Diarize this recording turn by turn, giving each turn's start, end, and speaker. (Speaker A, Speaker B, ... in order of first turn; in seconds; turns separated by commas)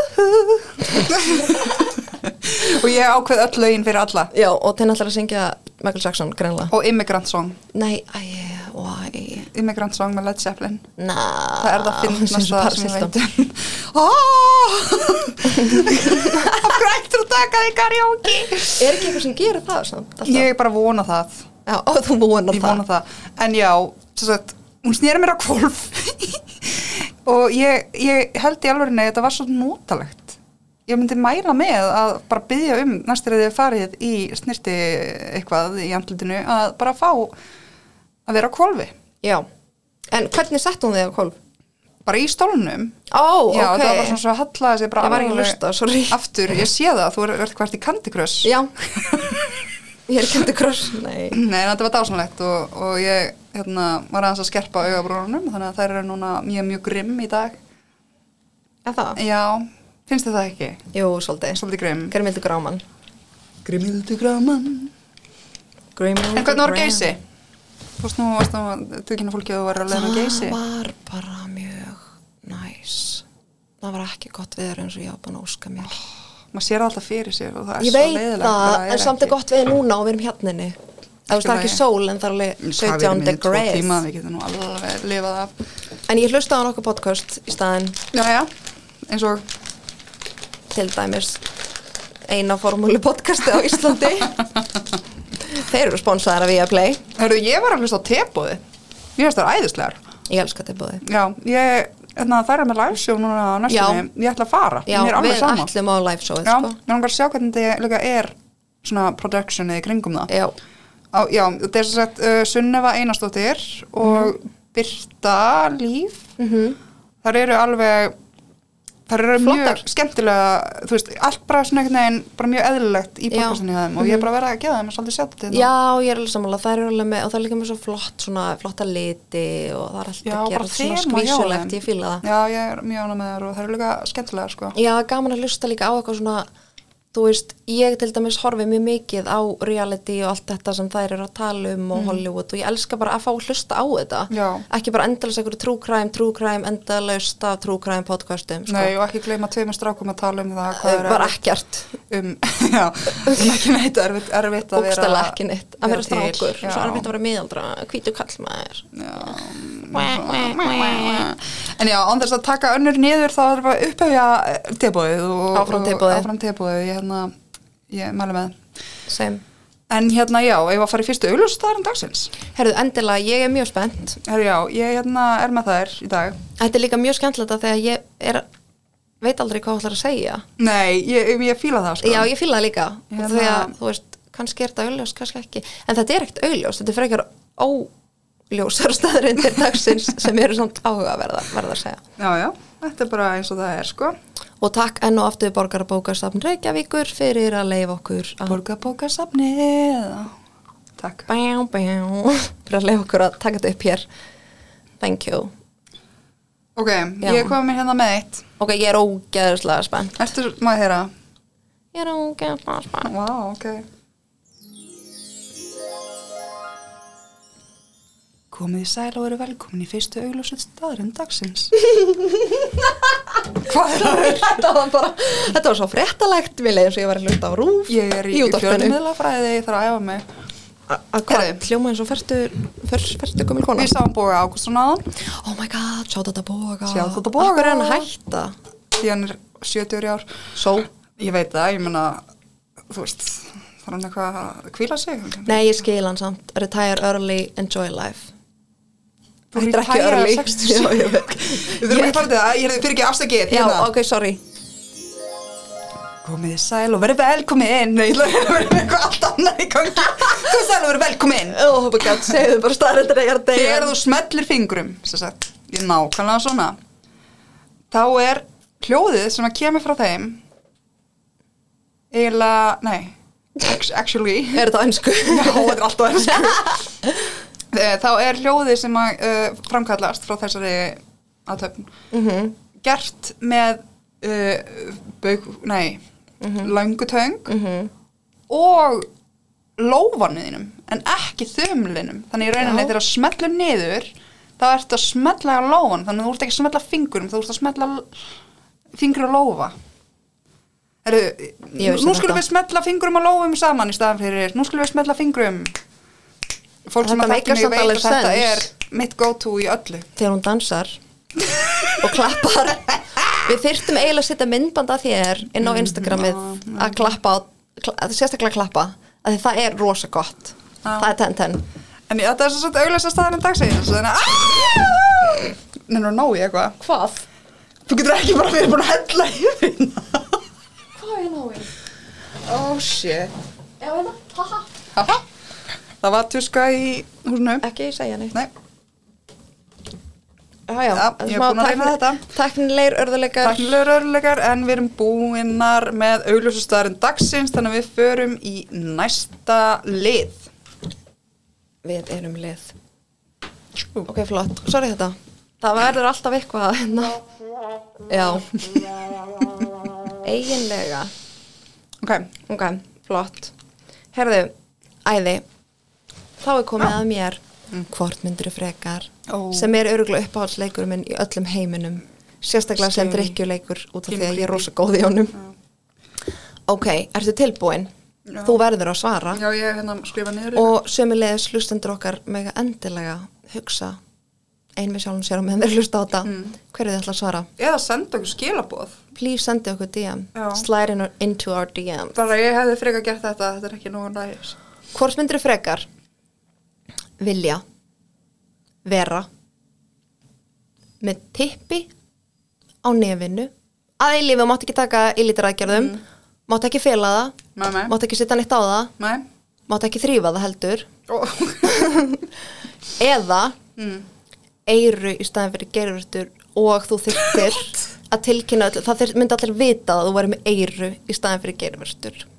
Speaker A: 0.2-4.3, Speaker B: 0.8-1.6, Speaker B: 4.3-6.7, Speaker A: 6.7-7.6, Speaker B: 7.7-9.5, Speaker A: 9.4-10.9, Speaker B: 11.0-13.1, Speaker A: 11.6-19.1, Speaker B: 15.5-16.7, Speaker B: 18.8-20.5, Speaker A: 20.2-21.5, Speaker B: 21.7-22.8, Speaker A: 22.5-37.3, Speaker A: 38.3-38.9, Speaker B: 40.1-41.4, Speaker A: 42.1-43.0, Speaker B: 43.1-44.2, Speaker A: 43.5-49.7, Speaker B: 45.0-46.2, Speaker B: 48.4-48.7, Speaker B: 50.1-51.4, Speaker A: 51.3-57.6, Speaker B: 58.9-59.2, Speaker A: 59.2-60.8, Speaker B: 60.9-62.8, Speaker A: 61.5-62.1, Speaker A: 63.6-64.9, Speaker B: 66.0-67.1, Speaker A: 66.3-67.2, Speaker A: 68.0-70.6, Speaker B: 69.9-73.2, Speaker B: 73.8-76.0, Speaker A: 76.5-79.4, Speaker B: 77.8-84.0, Speaker A: 81.3-81.8, Speaker A: 82.6-85.5, Speaker B: 86.1-88.0, Speaker A: 88.1-88.5, Speaker A: 89.0-89.5, Speaker B: 90.7-91.4, Speaker B: 92.3-94.5, Speaker B: 95.5-97.0, Speaker A: 97.2-98.6, Speaker A: 99.2-100.0, Speaker B: 100.3-101.0, Speaker A: 101.0-105.7, Speaker B: 103.7-104.1, Speaker B: 104.9-106.8, Speaker A: 106.4-110.3, Speaker B: 110.3-110.5, Speaker A: 111.1-116.3, Speaker B: 116.4-116.8, Speaker A: 117.2-118.2, Speaker A: 119.1-125.7, Speaker B: 119.4-119.8, Speaker B: 123.3-124.2, Speaker B: 125.5-132.2, Speaker A: 130.2-134.8, Speaker B: 134.8-136.5, Speaker B: 137.1-148.9, Speaker A: 141.9-142.2, Speaker A: 144.3-144.7, Speaker A: 148.7-151.4, Speaker B: 150.7-151.9, Speaker A: 152.1-157.1, Speaker B: 154.7-158.9, Speaker A: 158.9-167.4, Speaker B: 159.9-161.3, Speaker B: 165.5-166.3, Speaker A: 167.9-168.6, Speaker B: 169.1-169.4, Speaker A: 169.9-172.3, Speaker B: 172.5-174.2, Speaker A: 174.2-176.4, Speaker B: 176.6-178.5, Speaker B: 179.2-180.4, Speaker A: 180.6-182.3, Speaker B: 182.0-187.9, Speaker A: 183.1-183.7, Speaker B: 188.5-192.0, Speaker A: 192.2-194.2, Speaker B: 194.6-198.6, Speaker A: 198.5-200.3, Speaker A: 201.0-201.3, Speaker B: 201.3-204.1, Speaker B: 205.0-205.5, Speaker A: 206.8-208.4, Speaker B: 207.2-207.6, Speaker B: 208.6-210.2, Speaker A: 210.2-211.1, Speaker B: 211.9-213.1, Speaker A: 213.0-213.8, Speaker A: 218.5-221.7, Speaker B: 221.9-223.0, Speaker A: 223.6-224.5, Speaker B: 223.7-229.0, Speaker A: 227.9-230.2, Speaker B: 230.9-233.9, Speaker A: 231.3-231.6, Speaker A: 233.8-235.1, Speaker B: 235.2-238.6, Speaker A: 236.9-238.1, Speaker A: 239.0-240.3, Speaker B: 240.6-240.9, Speaker A: 241.2-242.2, Speaker A: 242.9-245.6, Speaker B: 245.5-248.3, Speaker B: 249.5-252.3, Speaker A: 249.5-253.9, Speaker B: 253.5-254.4, Speaker A: 256.2-262.3, Speaker B: 261.5-264.0, Speaker A: 263.5-266.8, Speaker A: 267.9-270.4, Speaker A: 272.1-274.7, Speaker B: 274.5-275.8, Speaker A: 275.3-276.8, Speaker B: 276.3-277.2, Speaker A: 277.7-281.9, Speaker B: 282.1-282.6, Speaker A: 282.8-286.0, Speaker B: 286.4-286.7, Speaker A: 286.6-287.5, Speaker B: 287.5-287.9, Speaker A: 288.5-289.1, Speaker A: 289.8-298.2, Speaker B: 292.6-292.9, Speaker A: 298.9-299.8, Speaker A: 301.0-305.7, Speaker B: 301.8-302.4, Speaker A: 306.9-310.1, Speaker B: 307.0-308.7, Speaker B: 310.2-311.0, Speaker A: 311.5-312.0, Speaker B: 312.0-321.6, Speaker A: 313.2-313.4, Speaker A: 315.6-317.2, Speaker A: 320.8-321.1, Speaker A: 322.1-326.8, Speaker B: 326.8-327.2, Speaker A: 327.9-330.4, Speaker B: 331.0-331.7, Speaker B: 332.5-334.7, Speaker A: 334.9-335.2, Speaker A: 336.0-337.6, Speaker B: 337.6-338.4, Speaker B: 340.7-343.7, Speaker A: 340.9-342.2, Speaker A: 343.4-350.5, Speaker B: 351.8-352.7, Speaker B: 354.1-357.2, Speaker B: 358.1-358.6, Speaker B: 360.2-361.1, Speaker A: 362.0-362.3, Speaker B: 362.5-363.5, Speaker B: 364.1-364.5, Speaker B: 365.0-365.4, Speaker B: 366.4-375.4, Speaker A: 369.3-369.7, Speaker A: 372.8-373.4, Speaker A: 374.1-374.7, Speaker B: 376.7-377.9, Speaker A: 378.3-378.6, Speaker B: 378.4-379.4, Speaker A: 379.3-380.8, Speaker B: 380.6-384.0, Speaker B: 384.8-387.5, Speaker A: 386.3-386.5, Speaker A: 387.6-389.0, Speaker B: 389.1-392.2, Speaker A: 390.4-390.6, Speaker A: 392.1-394.6, Speaker B: 394.9-395.9, Speaker B: 397.2-397.6, Speaker B: 398.9-399.3, Speaker B: 401.0-401.9, Speaker B: 402.8-408.9, Speaker A: 405.7-406.0, Speaker A: 407.6-407.9, Speaker A: 409.0-409.2, Speaker B: 409.7-410.9, Speaker A: 411.1-411.9, Speaker B: 411.6-412.3, Speaker B: 413.0-413.6, Speaker A: 413.8-414.1, Speaker B: 414.7-422.3, Speaker A: 417.3-417.6